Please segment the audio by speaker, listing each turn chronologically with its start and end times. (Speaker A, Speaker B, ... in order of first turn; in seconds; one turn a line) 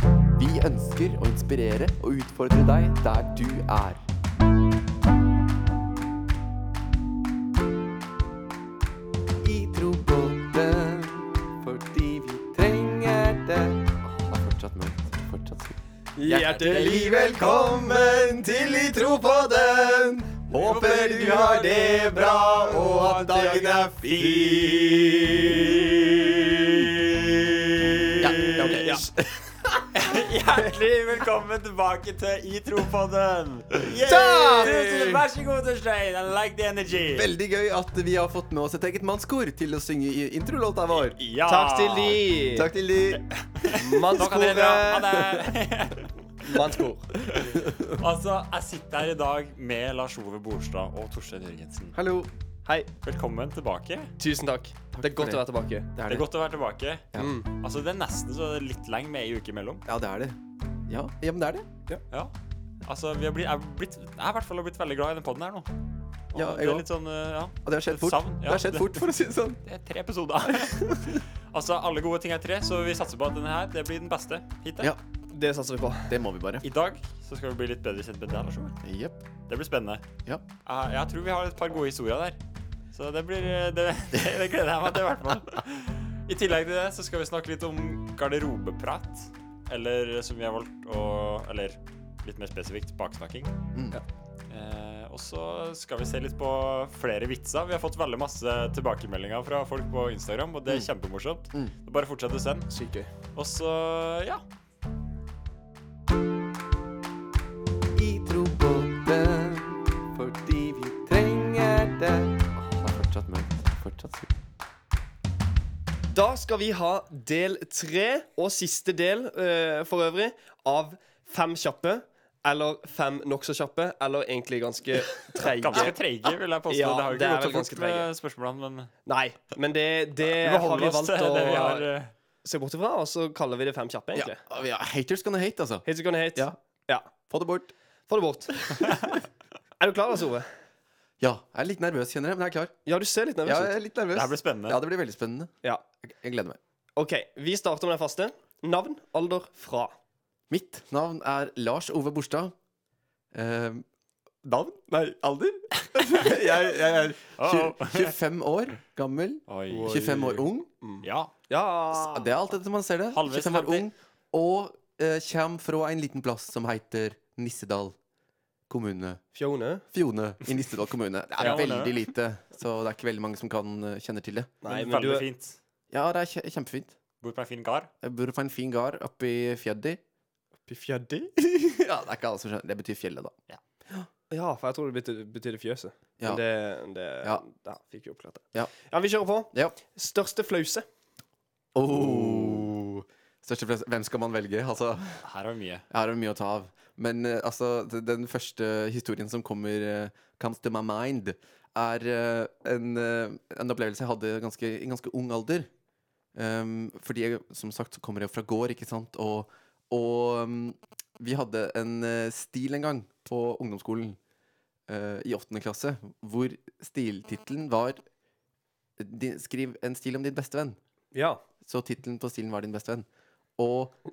Speaker A: 0.3-4.0
Speaker A: 9.4-15.8
Speaker B: 16.1-17.1
Speaker C: 16.3-17.0
Speaker A: 16.3-27.0
Speaker C: 20.6-21.6
Speaker C: 28.0-29.0
Speaker A: 28.2-30.1
Speaker B: 28.6-29.1
Speaker C: 29.9-37.3
Speaker A: 33.9-35.2
Speaker B: 34.0-34.7
Speaker A: 37.1-41.2
Speaker C: 40.9-42.3
Speaker B: 41.5-42.7
Speaker A: 42.5-43.2
Speaker C: 43.1-51.9
Speaker B: 43.7-45.2
Speaker A: 45.2-45.5
Speaker B: 46.4-47.1
Speaker A: 47.4-48.0
Speaker A: 51.9-52.3
Speaker C: 53.0-54.1
Speaker B: 54.2-55.9
Speaker A: 54.9-56.3
Speaker C: 56.0-59.8
Speaker B: 57.2-57.5
Speaker A: 59.8-61.7
Speaker C: 62.1-65.7
Speaker C: 66.3-69.0
Speaker A: 66.3-66.9
Speaker A: 67.6-69.6
Speaker C: 69.6-74.9
Speaker A: 70.4-71.2
Speaker B: 75.3-76.2
Speaker A: 76.1-76.7
Speaker C: 76.6-78.8
Speaker A: 78.8-79.2
Speaker C: 79.5-80.0
Speaker C: 80.6-82.4
Speaker C: 82.9-93.5
Speaker C: 94.5-102.7
Speaker B: 102.7-103.1
Speaker C: 103.3-104.4
Speaker A: 107.9-114.3
Speaker B: 116.1-126.0
Speaker C: 125.6-128.9
Speaker B: 126.7-128.1
Speaker B: 129.0-131.9
Speaker C: 130.2-132.1
Speaker B: 132.4-134.4
Speaker A: 134.1-136.6
Speaker B: 135.8-137.1
Speaker A: 137.3-137.7
Speaker B: 138.1-139.1
Speaker A: 138.7-139.1
Speaker B: 139.8-140.5
Speaker A: 141.2-142.7
Speaker B: 142.8-143.8
Speaker A: 143.4-146.6
Speaker C: 144.1-144.8
Speaker B: 146.9-149.9
Speaker A: 150.5-152.5
Speaker A: 153.3-153.8
Speaker A: 154.4-160.7
Speaker C: 156.0-156.3
Speaker C: 157.3-158.1
Speaker C: 159.5-160.1
Speaker B: 159.7-162.3
Speaker C: 161.0-161.3
Speaker A: 161.9-167.9
Speaker C: 163.1-163.9
Speaker A: 168.7-169.2
Speaker B: 169.3-169.8
Speaker A: 169.9-174.5
Speaker C: 171.4-172.1
Speaker B: 174.6-175.3
Speaker C: 174.7-175.6
Speaker A: 175.9-176.9
Speaker C: 177.2-177.9
Speaker A: 178.0-180.0
Speaker B: 180.7-181.3
Speaker A: 181.4-183.3
Speaker B: 184.3-190.8
Speaker A: 191.7-195.2
Speaker C: 195.2-195.8
Speaker A: 195.9-205.7
Speaker A: 206.3-214.2
Speaker A: 214.9-218.0
Speaker A: 219.0-220.8
Speaker B: 221.1-221.4
Speaker A: 221.6-223.1
Speaker A: 223.6-224.0